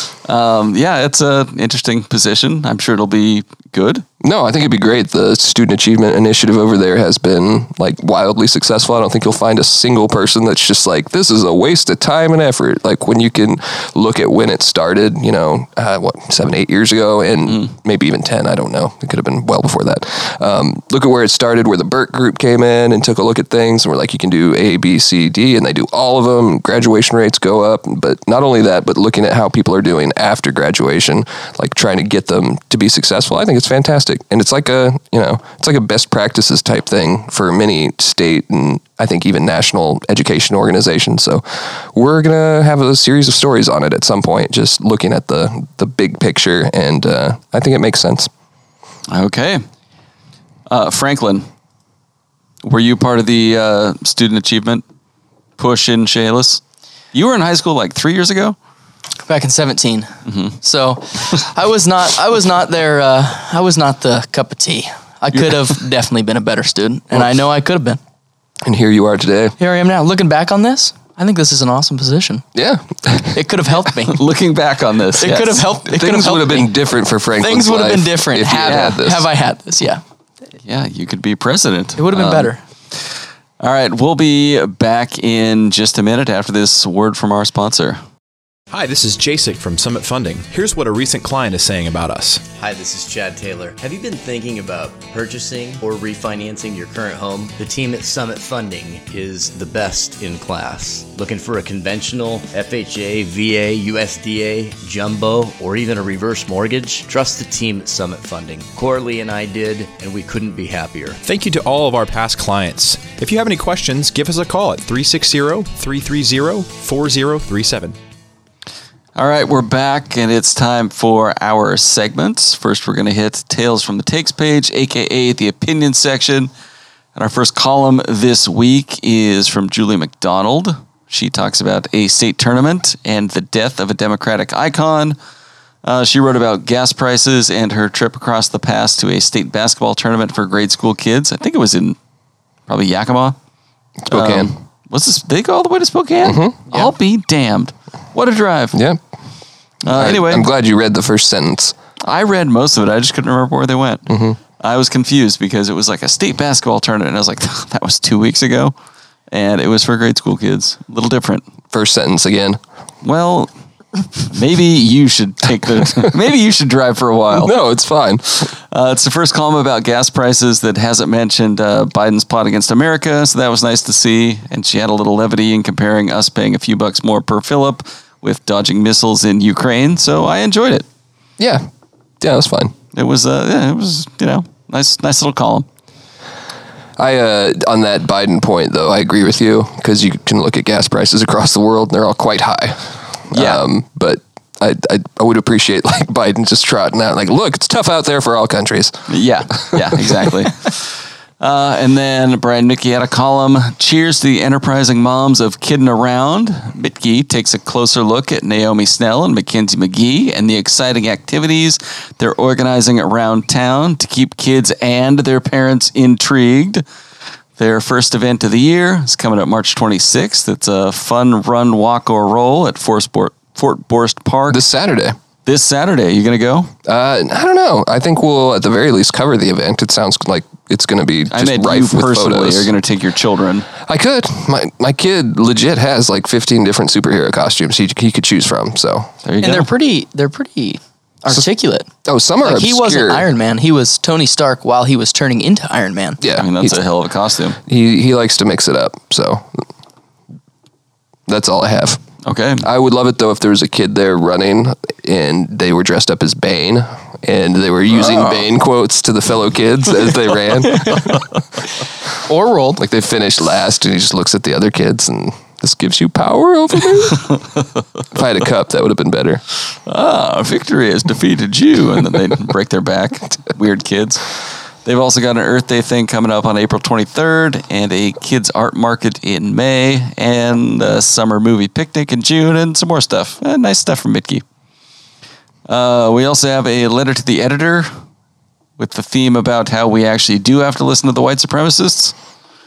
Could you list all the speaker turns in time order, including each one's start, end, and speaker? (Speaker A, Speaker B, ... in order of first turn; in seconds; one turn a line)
Speaker A: 0.2-4.0
Speaker B: 4.2-48.3
Speaker A: 49.1-49.6
Speaker A: 50.7-51.5
Speaker A: 52.6-54.8
Speaker A: 55.6-56.6
Speaker A: 57.1-58.5
Speaker C: 59.2-68.0
Speaker A: 60.2-60.5
Speaker B: 68.6-69.5
Speaker C: 69.6-72.4
Speaker B: 72.5-73.4
Speaker C: 73.3-74.2
Speaker A: 74.1-75.7
Speaker C: 75.2-76.7
Speaker B: 75.9-79.3
Speaker C: 77.4-80.0
Speaker A: 78.7-79.0
Speaker A: 80.6-83.1
Speaker C: 82.0-82.6
Speaker A: 83.6-88.0
Speaker D: 88.7-92.4
Speaker E: 92.5-111.2
Speaker D: 111.2-118.0
Speaker A: 119.2-126.5
Speaker A: 127.1-135.2
Speaker A: 135.8-141.9
Speaker A: 142.7-143.3
Speaker B: 144.0-144.5
Speaker A: 144.1-148.8
Speaker B: 146.2-146.6
Speaker B: 148.7-149.0
Speaker A: 149.8-150.5
Speaker B: 149.8-151.7
Speaker A: 152.0-158.7
Speaker B: 154.1-154.4
Speaker A: 159.3-161.4
Speaker B: 161.7-162.6
Speaker A: 163.0-163.5
Speaker A: 164.2-167.5
Speaker B: 167.3-168.5
Speaker A: 168.4-180.8
Speaker B: 181.4-181.6
Speaker B: 182.2-182.7
Speaker A: 182.9-185.7
Speaker B: 187.0-199.1
Speaker A: 193.3-193.6
Speaker A: 199.1-216.8
Speaker B: 199.6-200.3
Speaker A: 217.6-224.6
Speaker B: 224.5-225.2
Speaker A: 225.4-226.7
Speaker B: 226.8-232.7
Speaker A: 231.3-233.7
Speaker B: 233.8-239.1
Speaker A: 239.2-239.7
Speaker C: 239.4-241.9
Speaker B: 242.0-243.3
Speaker C: 242.4-246.2
Speaker B: 246.2-246.8
Speaker A: 246.3-247.6
Speaker B: 247.7-249.6
Speaker B: 251.3-252.0
Speaker A: 252.2-252.7
Speaker B: 252.6-261.2
Speaker A: 257.9-258.4
Speaker C: 262.3-262.8
Speaker B: 262.8-267.3
Speaker B: 268.1-269.4
Speaker A: 269.9-274.3
Speaker A: 274.8-284.4
Speaker A: 285.7-287.9
Speaker A: 288.8-292.1